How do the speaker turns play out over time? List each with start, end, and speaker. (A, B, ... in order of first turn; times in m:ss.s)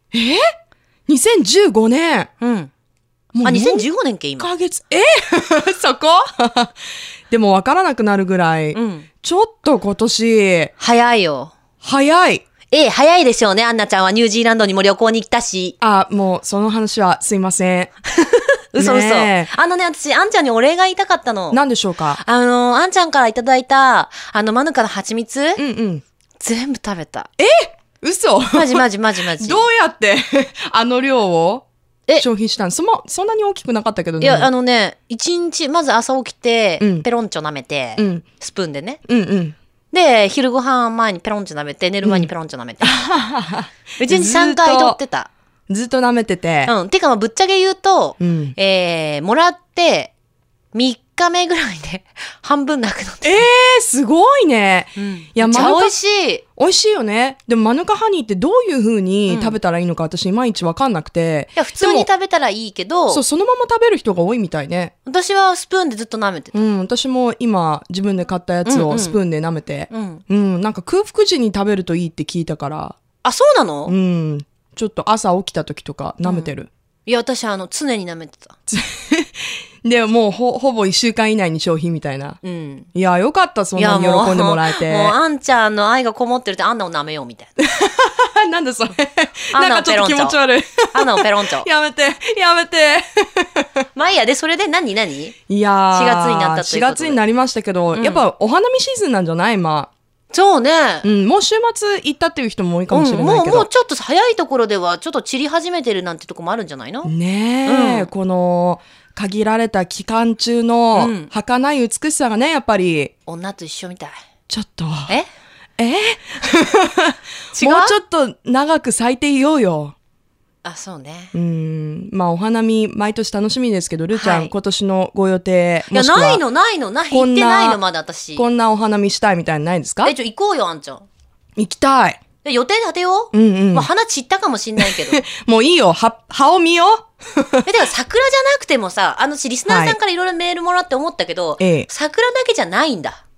0:00.1-0:00.4 A
0:01.1-0:02.3 A
0:02.4-0:02.7 B
0:03.3-0:03.9 A
0:03.4-0:04.5 B
0:04.4-0:06.7 A
0:07.3-0:10.7 A
0:08.7-0:09.1 B
0:10.8-0:11.5 B
0:11.8-0:12.4 A
0:12.7-0:15.8 B
0:15.8-0:17.9 A
0:18.2-0:21.6 B
0:18.8-0:19.5 A
0:21.5-0:22.2 A
0:22.2-0:25.6 B
0:25.6-0:26.0 A
0:26.4-0:27.3 B
0:27.4-0:31.7 A
0:28.5-0:29.7 B
0:32.2-0:34.5 A
0:34.2-0:39.0 B
0:36.8-0:37.1 A
0:38.0-0:38.2 A
0:39.1-0:39.6 A
0:39.9-0:43.0 B
0:42.8-0:45.0 A
0:44.0-0:45.3 B
0:45.7-0:46.7 A
0:46.7-0:50.1 B
0:48.2-0:48.6 A
0:50.7-0:53.4 B
0:53.2-0:55.9 A
0:55.0-0:56.4 B
0:56.6-1:02.1 A
0:59.3-0:59.6 B
1:01.6-1:03.2 B
1:03.1-1:04.9 A
1:05.1-1:06.6 B
1:06.5-1:13.0 A
1:08.6-1:09.2 B
1:09.9-1:10.2 B
1:13.2-1:14.0 B
1:13.9-1:16.7 A
1:16.2-1:16.5 B
1:17.1-1:18.6 B
1:18.7-1:22.4 A
1:22.4-1:22.9 B
1:22.9-1:25.2 A
1:23.8-1:27.5 B
1:27.6-1:33.7 A
1:29.5-1:30.4 B
1:30.9-1:31.7 B
1:34.0-1:35.4 B
1:35.5-1:39.9 A
1:35.9-1:37.2 B
1:37.9-1:38.3 B
1:40.3-1:41.1 B
1:41.0-1:43.7 A
1:42.9-1:47.1 B
1:47.0-1:53.1 A
1:47.7-1:48.1 B
1:50.9-1:51.3 B
1:53.3-1:54.2 B
1:54.5-1:55.2 A
1:55.8-2:00.0 A
1:57.6-1:58.0 B
2:00.6-2:01.3 B
2:01.3-2:06.4 A
2:04.1-2:04.5 B
2:05.9-2:08.5 B
2:07.1-2:07.8 A
2:08.4-2:10.1 A
2:10.0-2:11.0 B
2:11.6-2:12.2 A
2:12.4-2:15.2 B
2:13.3-2:13.9 A
2:14.8-2:17.6 A
2:17.6-2:23.2 B
2:19.7-2:20.0 A
2:21.6-2:21.9 A